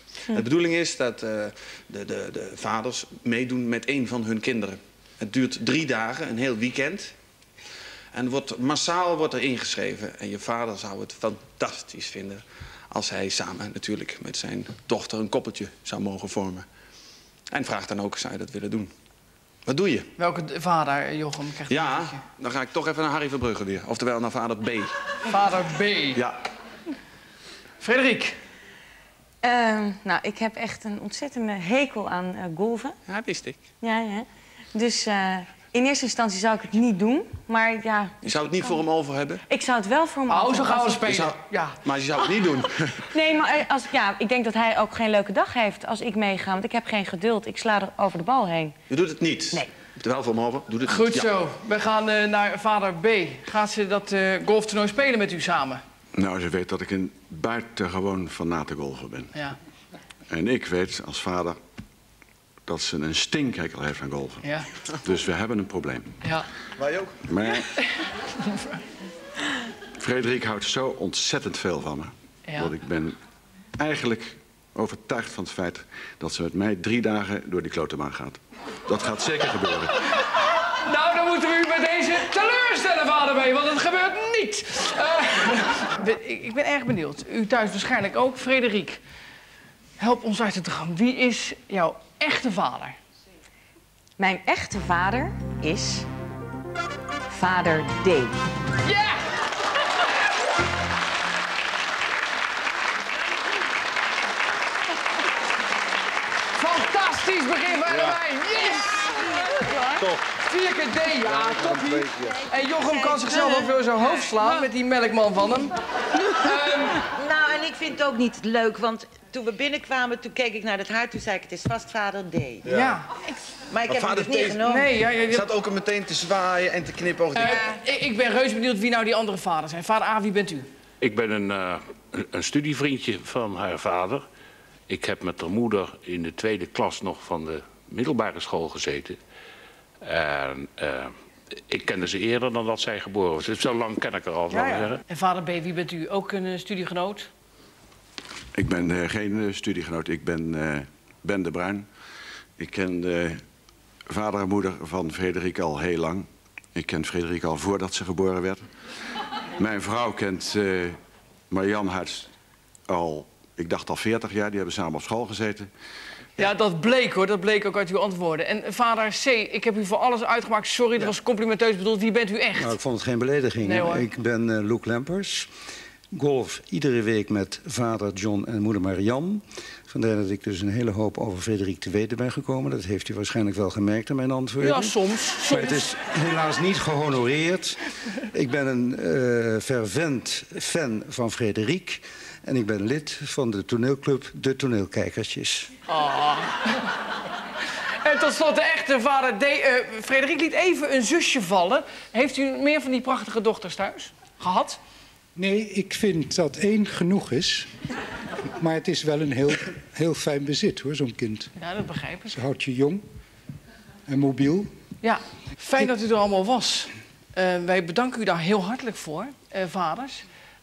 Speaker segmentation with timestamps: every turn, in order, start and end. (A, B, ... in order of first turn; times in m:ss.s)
0:00.3-0:07.1 A
0:08.1-0:16.6 A
0:17.5-0:18.9 A
0:19.6-0:20.1 A
0:20.2-0:22.2 B
0:21.7-0:24.9 A
0:25.3-0:26.2 B
0:27.8-0:28.3 B
0:29.4-0:33.0 C
0:33.1-0:33.6 A
0:33.8-0:38.7 C
0:38.2-0:39.4 A
0:39.5-0:41.0 C
0:40.3-0:41.8 B
0:41.0-0:43.1 A
0:43.1-0:48.7 C
0:48.9-0:51.3 A
0:50.9-0:55.8 B
0:56.1-0:59.3 D
1:00.3-1:01.6 D
1:02.6-1:04.5 D
1:04.4-1:04.7 B
1:05.0-1:06.1 D
1:06.8-1:07.4 A
1:07.3-1:07.6 D
1:07.7-1:08.6 B
1:10.0-1:13.2 D
1:12.5-1:12.7 B
1:13.8-1:20.0 D
1:20.8-1:29.0 B
1:30.0-1:33.0 B
1:34.2-1:36.1 C
1:37.3-1:38.4 C
1:38.8-1:39.4 B
1:46.5-1:49.4 B
1:49.5-1:50.1 E
1:50.3-1:57.1 B
1:52.3-1:54.0 E
1:57.1-2:02.6 E
2:02.6-2:03.0 A
2:02.7-2:03.1 B
2:03.7-2:04.9 E
2:03.7-2:04.6 A
2:04.6-2:05.5 B
2:05.3-2:07.6 A
2:07.3-2:10.7 B
2:11.0-2:14.2 F
2:14.9-2:19.2 F
2:20.0-2:21.1 F
2:21.7-2:25.0 F
2:24.5-2:27.3 B
2:28.5-2:31.9 D
2:32.6-2:33.4 D
2:34.1-2:38.6 D
2:39.6-2:41.0 D
2:41.5-2:42.3 D
2:42.9-2:45.7 D
2:46.4-2:52.8 B
2:52.6-2:55.5 G
2:53.6-2:54.1 B
2:56.1-3:15.7 G
3:04.6-3:05.8 B
3:15.9-3:16.9 B
3:18.0-3:24.8 B
3:25.4-3:27.7 H
3:28.4-3:31.5 H
3:31.6-3:32.4 B
3:32.3-3:33.0 H
3:34.1-3:34.7 H
3:35.0-3:40.2 B